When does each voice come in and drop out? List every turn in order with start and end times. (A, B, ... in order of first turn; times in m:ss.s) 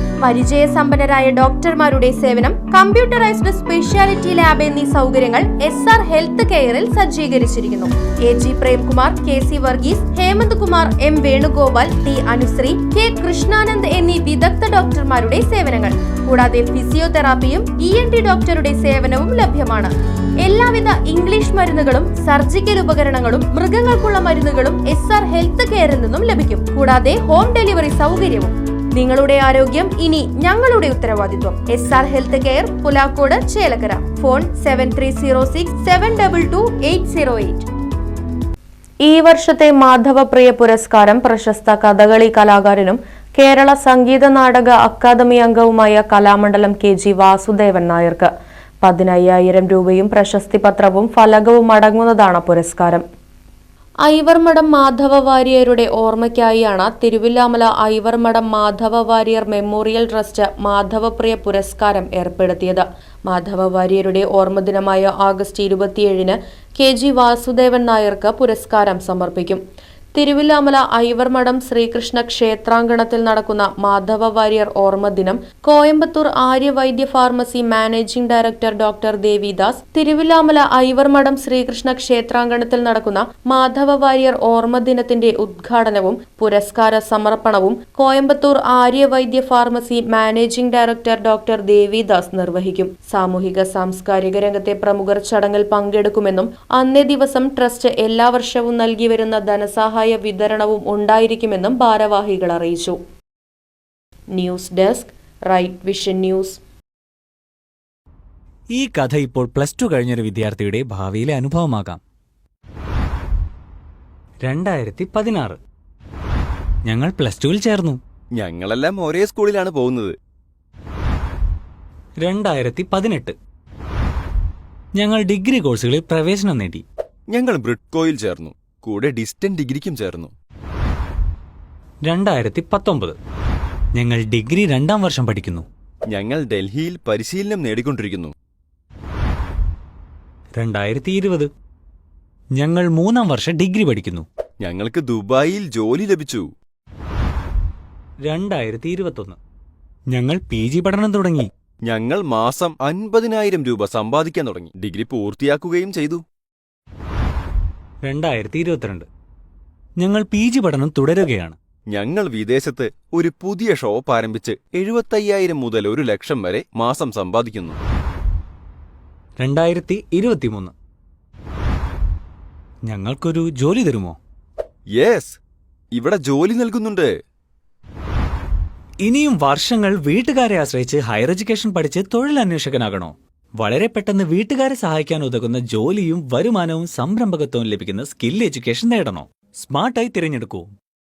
0:00.2-0:37.6 A
0:39.0-0:48.3 A
0:48.8-0:53.0 A
0:54.1-1:09.6 A
1:10.2-1:43.0 A
1:44.3-1:46.6 A
1:48.7-1:52.0 B
1:54.4-1:55.6 B
1:56.8-1:58.0 B
1:58.4-2:00.2 C
2:02.2-2:03.4 B
2:05.0-2:06.8 B
2:07.3-2:10.3 C
2:12.1-2:13.2 B
2:14.0-2:15.7 B
2:16.1-2:18.3 C
2:20.6-2:21.5 B
2:22.6-2:24.2 B
2:24.6-2:26.5 C
2:28.2-2:29.4 B
2:30.1-2:31.5 B
2:31.9-2:36.2 C
2:38.0-2:39.1 B
2:40.0-2:41.6 B
2:41.9-2:47.8 C
2:49.4-2:50.7 B
2:52.9-2:54.2 B
2:55.0-2:55.4 C
2:55.9-2:57.1 C
2:59.0-3:10.7 B